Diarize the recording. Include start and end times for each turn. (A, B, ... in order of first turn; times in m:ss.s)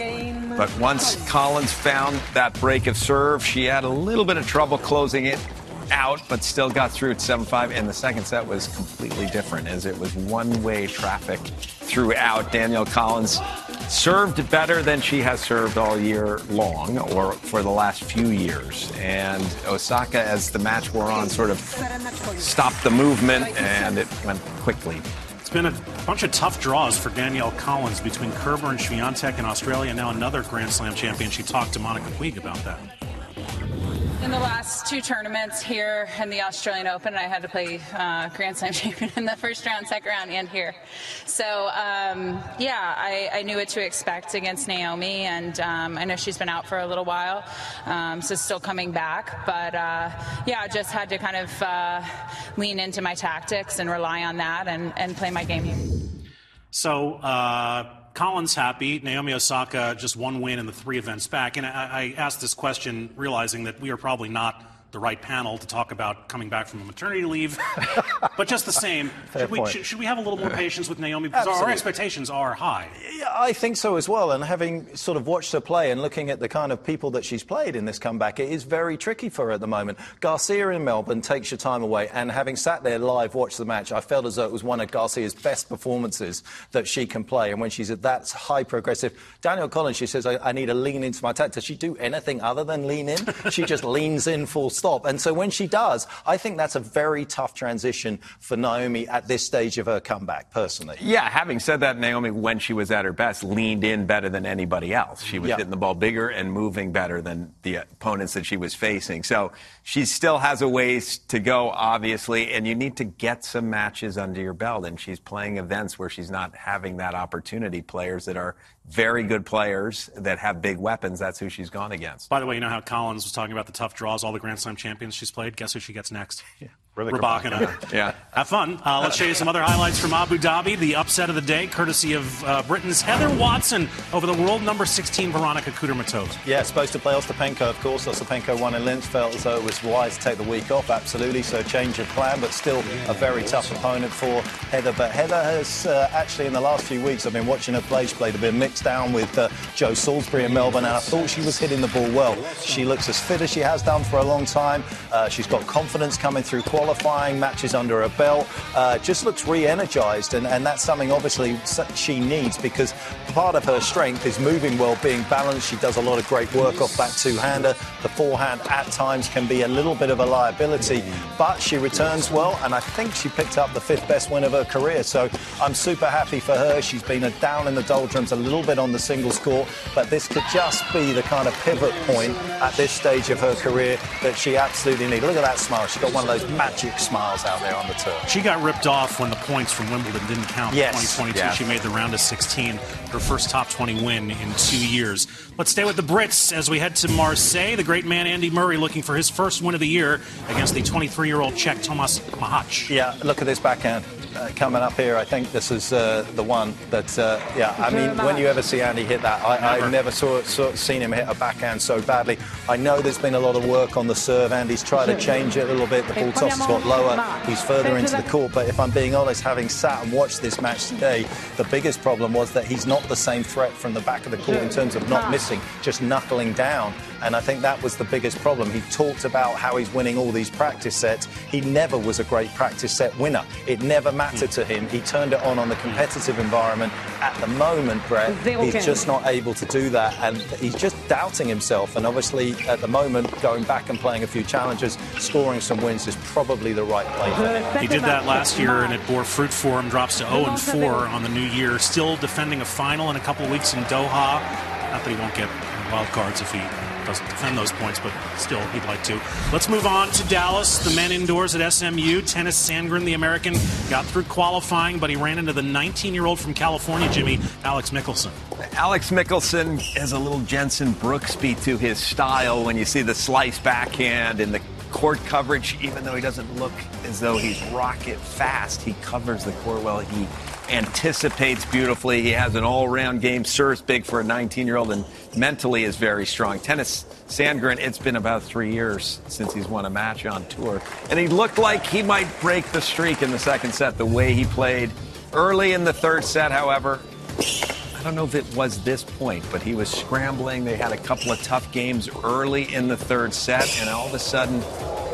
0:00.5-0:25.1 A
0:25.4-0:32.8 B
0:34.2-0:55.8 C
0:56.7-1:13.0 B
1:09.3-1:09.8 D
1:11.3-1:11.8 D
1:13.0-1:41.0 D
1:41.0-2:02.3 A
2:02.3-2:06.4 B
2:07.0-2:07.7 D
2:07.1-2:16.4 B
2:07.8-2:08.2 A
2:16.4-3:08.3 D
3:08.3-3:22.9 B
3:10.7-3:11.6 D
3:22.9-4:07.8 D
4:07.8-4:28.4 B
4:28.6-4:57.1 A
4:57.9-5:04.7 A